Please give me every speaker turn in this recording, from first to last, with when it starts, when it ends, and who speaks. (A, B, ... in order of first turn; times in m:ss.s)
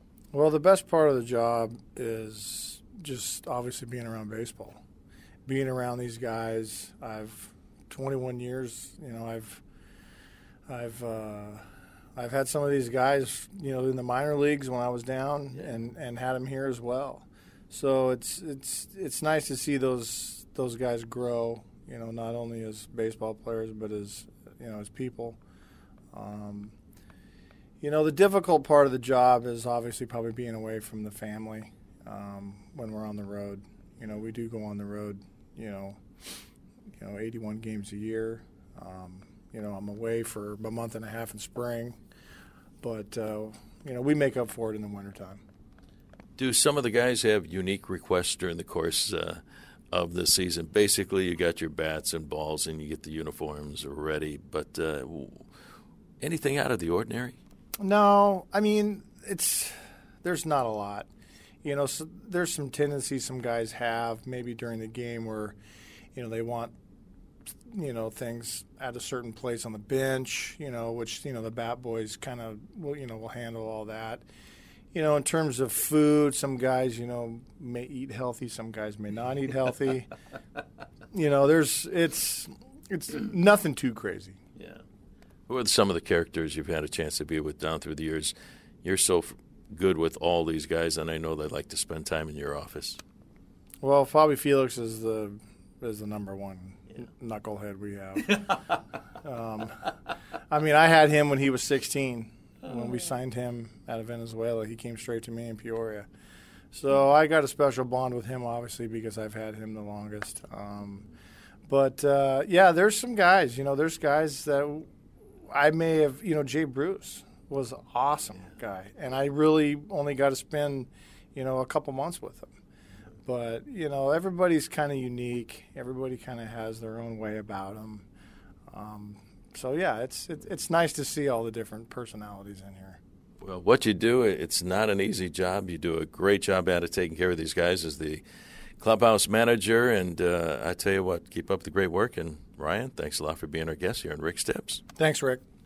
0:00.3-0:04.8 A
0:05.4-0:09.6 A
0:10.7-0:11.6 A
0:12.2-0:25.4 A
0:26.1-0:26.7 A
0:27.8-0:36.0 A
0:37.0-0:42.0 A
0:42.8-0:45.4 A
0:46.4-0:55.4 B
0:56.2-0:57.4 B
0:57.8-1:01.1 A
1:01.6-1:05.6 A
1:06.1-1:06.7 A
1:07.7-1:14.2 A
1:14.9-1:20.1 A
1:21.1-1:24.4 A
1:25.5-1:33.0 B
1:33.8-1:39.9 A
1:40.5-1:46.1 A
1:46.7-1:51.1 A
1:51.7-1:54.9 A
1:55.5-2:02.5 A
2:03.2-2:08.0 A
2:08.7-2:13.0 A
2:13.4-2:18.2 B
2:18.8-2:24.8 B
2:25.0-2:25.4 A